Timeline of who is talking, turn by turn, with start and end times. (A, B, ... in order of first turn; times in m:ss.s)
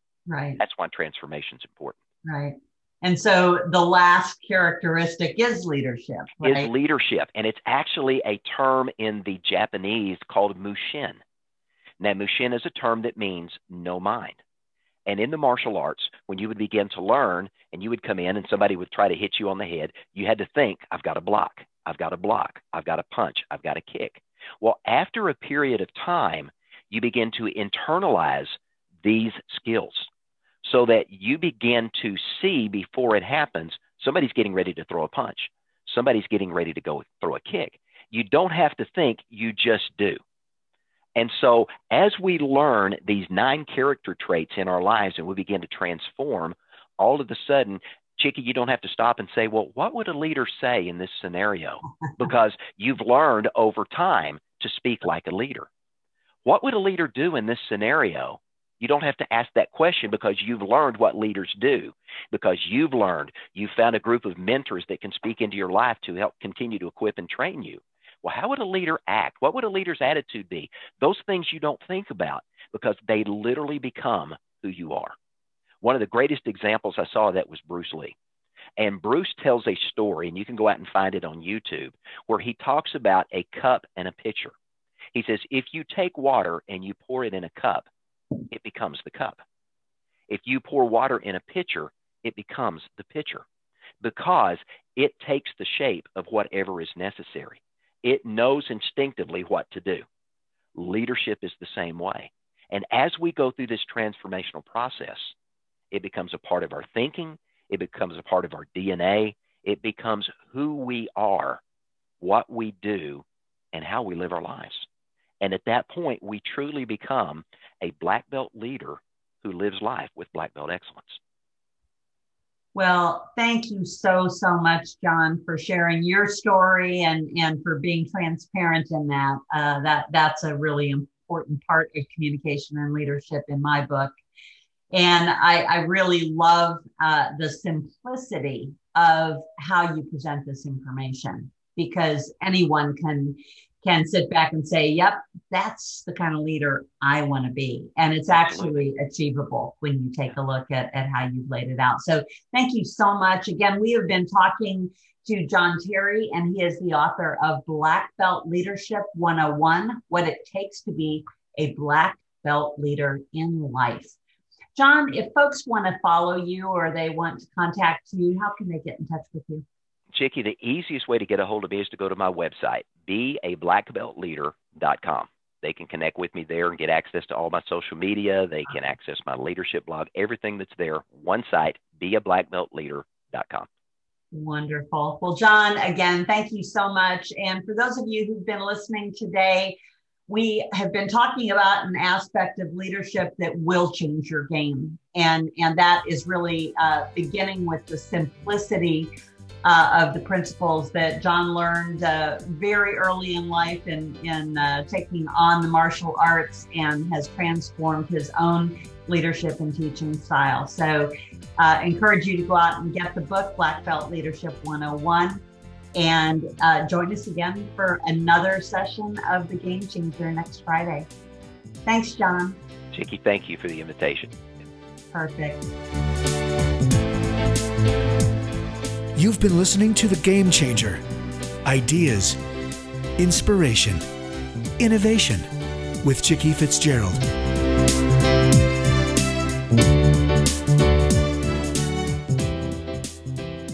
0:00.3-0:00.6 A
0:00.6-0:02.0 B
0:02.2-0:06.7 A
0:06.4-0:11.2 B
0:12.0-0:14.4 B
0:15.1-0:30.1 B
0:30.6-0:40.2 B
0:41.1-0:55.7 B
0:56.4-1:15.1 B
1:15.8-1:18.1 B
1:18.8-1:24.5 B
1:25.1-1:27.9 B
1:28.5-1:29.4 B
1:30.3-1:33.4 B
1:34.0-1:40.0 B
1:40.8-1:45.3 B
1:45.9-1:51.6 B
1:52.2-1:54.9 B
1:55.4-2:01.2 B
2:02.8-2:14.1 A
2:14.9-2:44.2 A
2:28.3-2:28.7 B
2:44.8-2:49.6 A
2:50.1-3:03.7 B
3:04.3-3:09.8 A
3:10.3-3:19.1 A
3:19.6-3:35.4 A
3:36.0-3:41.1 A
3:41.9-3:42.6 A
3:42.9-3:44.3 B
3:45.1-3:45.7 A
3:49.2-3:51.0 C
3:51.6-3:52.4 C
3:53.2-3:54.0 C
3:54.8-3:55.5 C
3:56.0-3:57.2 C